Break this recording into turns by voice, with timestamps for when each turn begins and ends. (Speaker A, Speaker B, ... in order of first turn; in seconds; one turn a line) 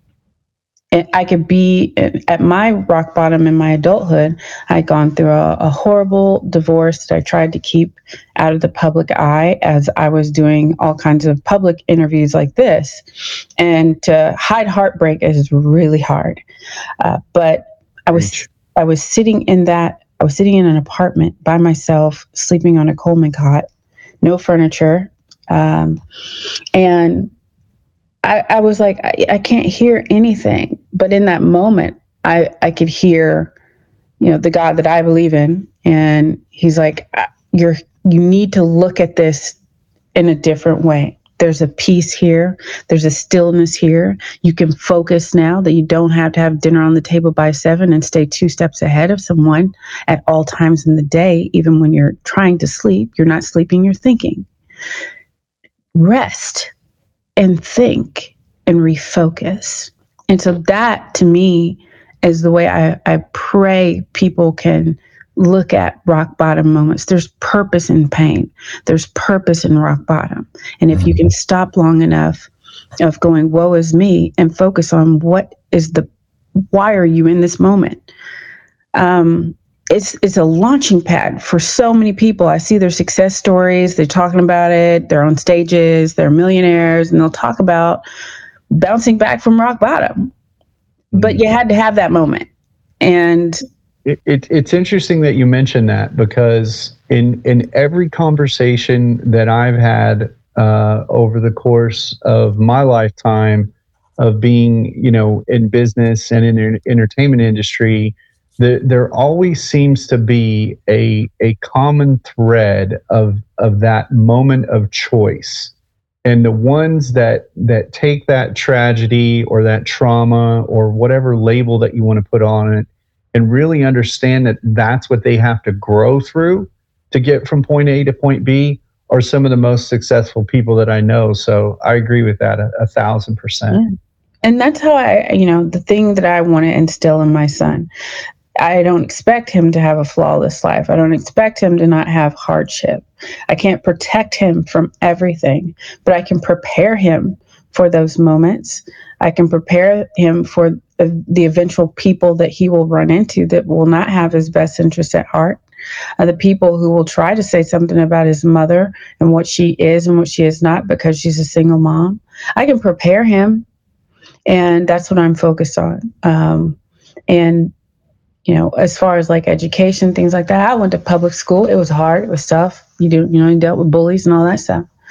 Speaker A: 0.9-13.0
Speaker A: 13.6-16.4
Speaker A: 17.0-23.6
Speaker B: 18.1-18.5
Speaker A: 24.2-26.0
Speaker A: 26.7-27.3
Speaker A: 28.2-33.5
Speaker A: 34.2-39.5
Speaker A: 40.1-54.4
Speaker A: 55.9-56.7
Speaker A: 57.4-72.5
Speaker A: 73.0-76.1
Speaker A: 76.7-78.0
Speaker A: 78.9-88.0
Speaker A: 88.7-90.3
Speaker B: 91.1-91.4
Speaker A: 91.1-92.5
Speaker A: 93.0-93.6
Speaker B: 94.0-115.7
Speaker B: 116.2-133.8
Speaker A: 134.4-137.9
Speaker A: 138.6-155.6
Speaker A: 156.2-163.6
Speaker A: 164.4-166.8
Speaker A: 167.3-167.7
Speaker A: 168.4-174.8